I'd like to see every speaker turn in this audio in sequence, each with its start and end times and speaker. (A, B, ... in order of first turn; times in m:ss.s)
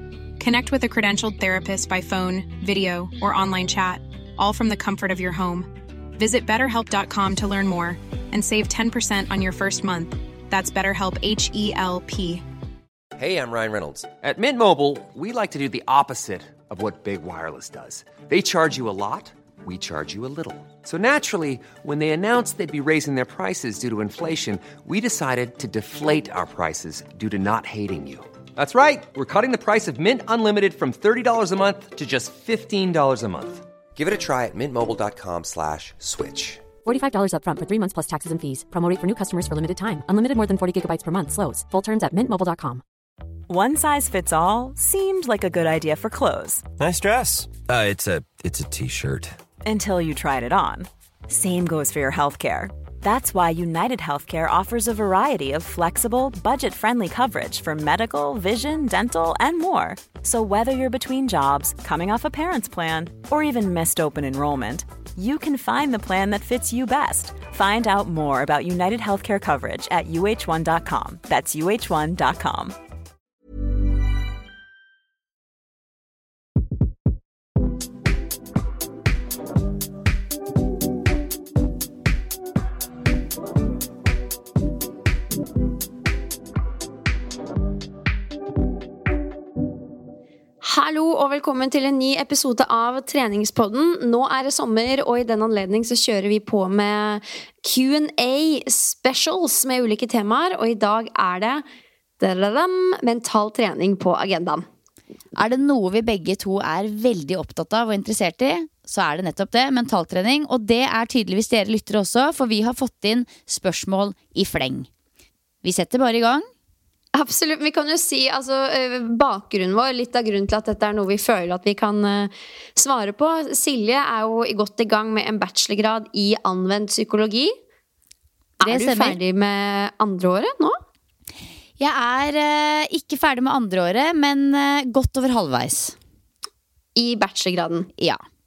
0:00.4-0:12.4 A
0:13.2-0:36.7 B
0:36.8-0:42.8 C
0:43.5-0:46.7 D
0:46.8-0:49.4 E
0:49.6-1:12.8 D
1:30.6-1:41.6 F
1:42.2-1:44.7 F
1:45.4-1:54.9 G
1:55.6-1:56.5 G
1:57.1-2:07.5 F
2:08.6-2:10.8 F
2:08.6-2:09.2 G
2:11.8-2:16.0 G
2:17.0-2:17.9 F